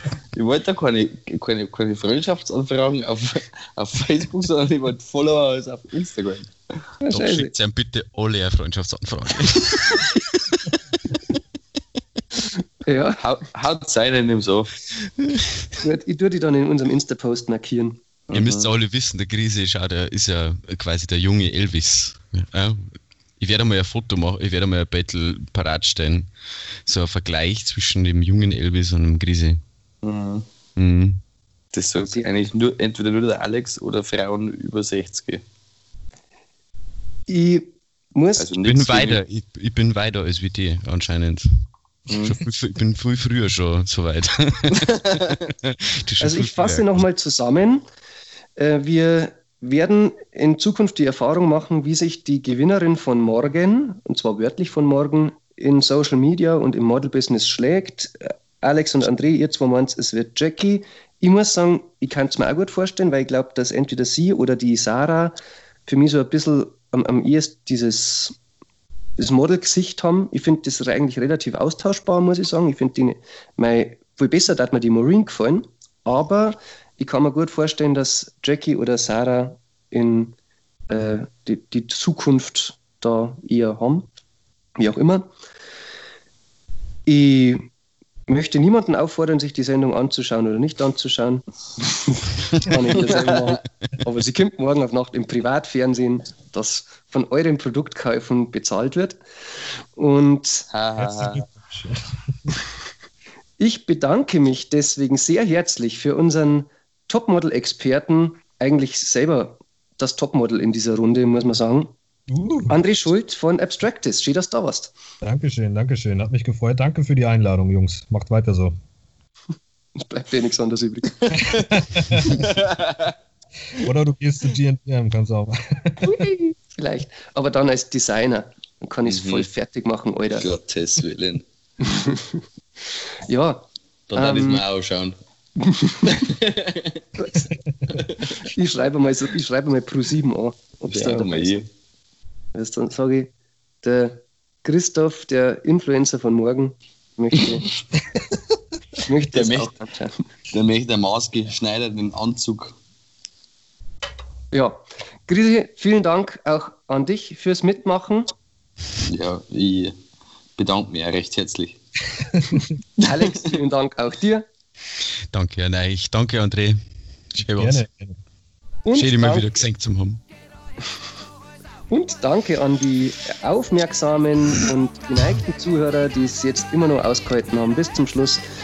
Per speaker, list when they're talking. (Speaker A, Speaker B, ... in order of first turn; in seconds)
Speaker A: 0.3-6.5, 13.2-14.7, 18.3-18.7, 30.0-30.4, 31.7-35.4, 38.4-39.2, 42.1-42.4, 92.9-93.5, 100.7-101.4, 121.2-123.1, 129.0-129.4, 130.3-131.4, 134.1-135.1, 136.0-137.0, 137.9-138.3, 140.9-141.7, 149.3-149.7, 150.5-152.8, 159.1-159.9, 160.6-161.8, 163.1-163.5
Speaker B: 7.0-7.5, 12.8-13.2, 15.8-18.0, 37.3-38.5, 46.2-47.8, 48.5-68.3, 69.2-80.3, 80.9-84.1, 84.8-85.3, 87.0-87.7, 88.3-99.2, 99.9-100.7, 103.6-111.9, 112.7-114.9, 120.0-121.1, 126.0-130.4, 131.8-132.4, 133.2-134.6, 135.6-136.2, 137.2-137.5, 138.4-141.6, 142.5-143.3, 143.8-147.7, 149.1-150.2, 154.5-158.3, 163.0-164.5, 168.8-169.6, 171.9-178.4
Speaker C: 7.1-10.6, 18.3-26.3, 26.8-29.6, 30.8-31.2, 38.6-41.5, 42.1-47.0, 165.3-166.8, 167.3-167.8, 168.9-170.2
Speaker D: 101.0-102.5, 112.3-112.8, 115.2-118.7, 121.5-122.5, 123.7-126.2, 162.2-162.7, 167.4-168.2